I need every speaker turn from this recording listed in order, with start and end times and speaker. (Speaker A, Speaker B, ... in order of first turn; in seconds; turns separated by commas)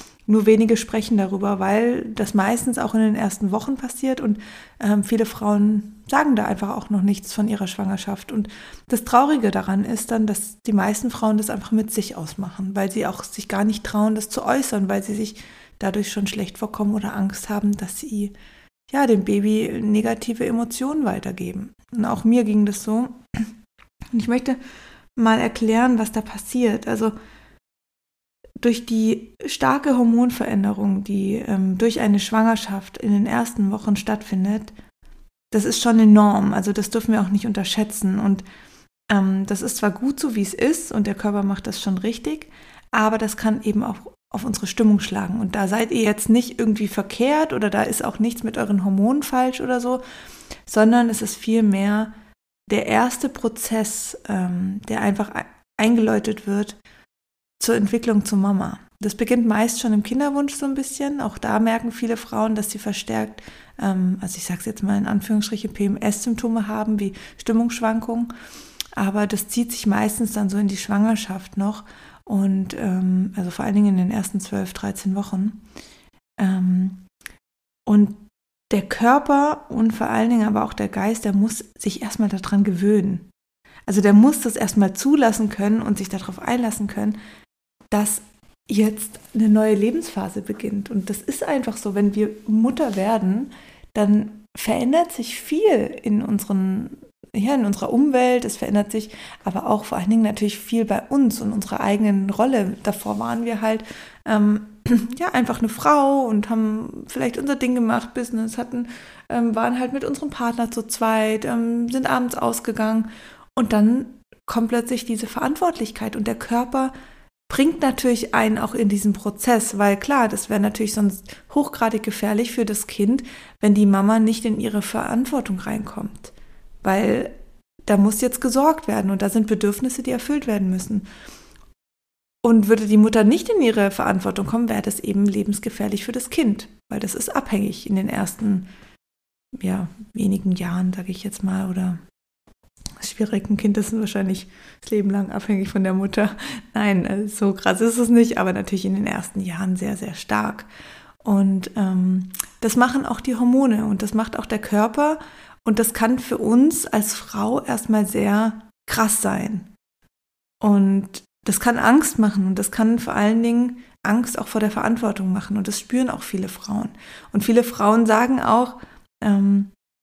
Speaker A: 0.3-18.3, Speaker A: 18.9-23.5, Speaker A: 24.1-24.6, Speaker A: 25.2-27.1, Speaker A: 28.6-34.7, Speaker A: 35.5-38.4, Speaker A: 39.1-50.0, Speaker A: 50.7-52.1, Speaker A: 52.7-56.8, Speaker A: 57.6-68.3, Speaker A: 69.0-75.6, Speaker A: 76.4-77.0, Speaker A: 77.9-83.3, Speaker A: 83.9-87.2, Speaker A: 87.9-116.9, Speaker A: 117.5-127.3, Speaker A: 127.9-131.1, Speaker A: 132.4-138.7, Speaker A: 139.6-142.0, Speaker A: 143.0-150.7, Speaker A: 151.2-159.7, Speaker A: 160.6-169.7